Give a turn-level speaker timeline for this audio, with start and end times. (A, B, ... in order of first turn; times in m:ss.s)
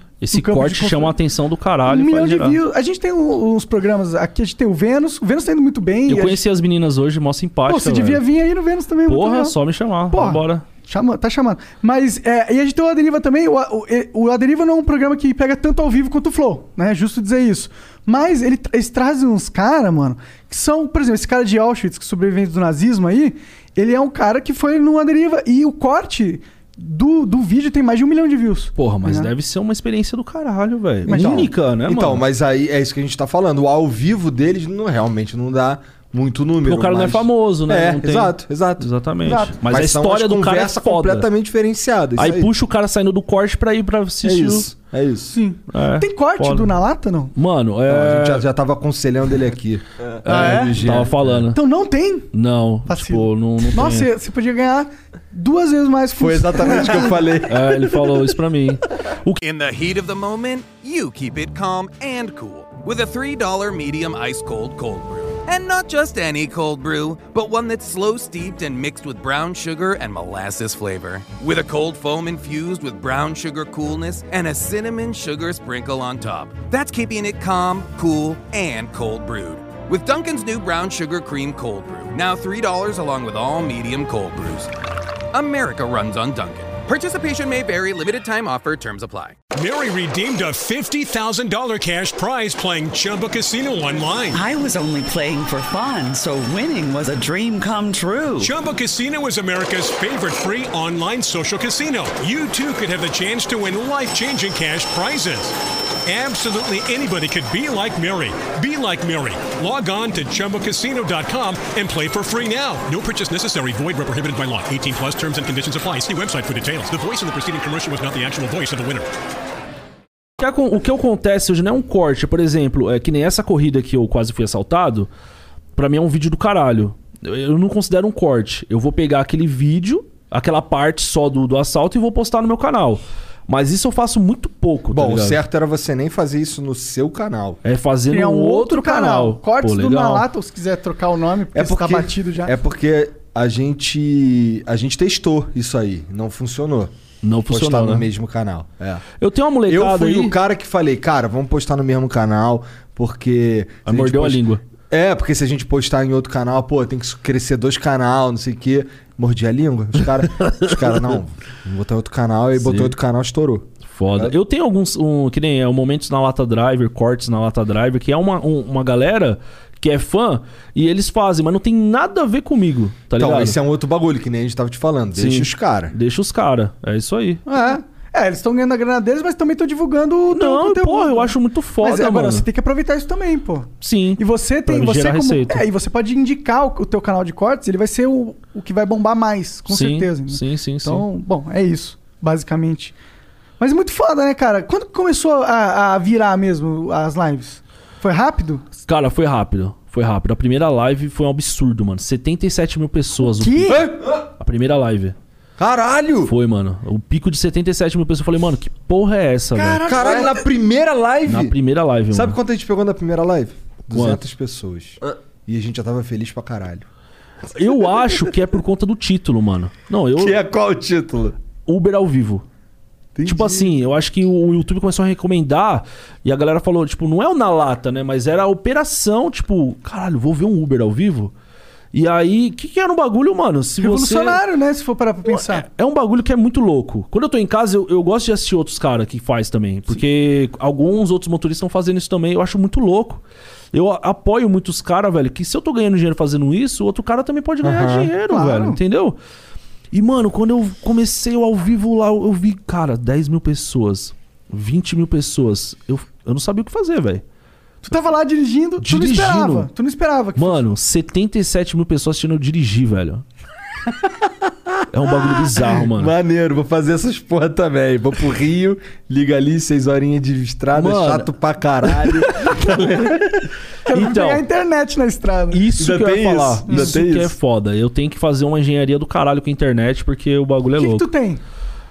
0:00.2-0:02.6 A
0:00.3-0:01.1 B
0:01.8-0:06.4 B
0:06.1-0:08.2 A
0:07.7-0:09.6 B
0:09.0-0:10.6 A
0:10.1-0:29.3 B
0:28.8-0:32.2 A
0:31.0-0:31.5 B
0:31.1-0:38.9 C
0:36.6-0:41.3 A
0:39.2-0:39.6 B
0:39.6-0:42.5 C
0:42.2-0:44.7 A
0:44.2-0:45.4 C
0:45.3-0:47.3 B
0:45.7-0:46.7 A
0:47.3-0:48.4 A
0:47.9-0:51.4 C
0:50.2-0:51.6 A
0:50.2-0:50.8 B
0:51.5-0:52.3 B
0:52.3-0:54.1 A
0:52.9-0:57.3 B
0:56.2-0:57.7 C
0:57.5-0:59.4 A
0:59.4-1:24.7 D
1:25.3-1:29.4 D
1:29.5-1:34.4 E
1:34.3-1:38.5 F
1:38.4-1:59.1 E
2:00.4-2:05.1 A
2:05.7-2:15.4 A
2:14.9-2:17.6 C
2:17.6-2:20.2 A
2:18.1-2:22.5 B
2:21.5-2:26.9 C
2:27.2-2:28.1 A
2:27.5-2:29.0 C
2:29.2-2:30.3 A
2:29.7-2:44.3 C
2:33.8-2:34.6 A
2:40.4-2:41.0 A
2:42.6-2:42.9 A
2:43.9-2:53.6 A
2:53.2-2:55.9 C
2:55.1-2:57.4 A
2:57.5-3:12.9 B
3:00.3-3:02.5 A
3:03.8-3:05.6 A
3:09.7-3:11.0 A
3:13.6-3:18.6 B
3:18.8-3:25.1 A
3:23.2-3:23.9 B
3:23.7-3:24.1 C
3:25.6-3:26.3 C
3:26.2-3:30.0 A
3:29.6-3:30.4 B
3:29.8-3:31.6 C
3:31.2-3:32.4 A
3:32.1-3:36.8 C
3:33.9-3:34.2 A
3:37.5-3:40.4 A
3:40.2-3:41.4 C
3:41.7-3:42.4 A
3:43.1-3:43.8 C
3:43.2-3:51.3 A
3:51.9-3:54.4 A
3:53.8-3:55.7 B
3:55.2-4:09.2 A
4:07.6-4:08.1 C
4:08.3-4:08.8 B
4:09.9-4:17.2 A
4:17.8-4:20.6 B
4:18.8-4:19.7 A
4:20.4-4:23.2 A
4:24.9-4:26.1 A
4:25.0-4:33.5 C
4:30.7-4:31.3 A
4:33.9-4:35.6 B
4:33.9-4:34.4 A
4:35.5-4:41.0 A
4:35.8-4:37.4 C
4:36.7-4:36.9 B
4:40.8-4:41.4 B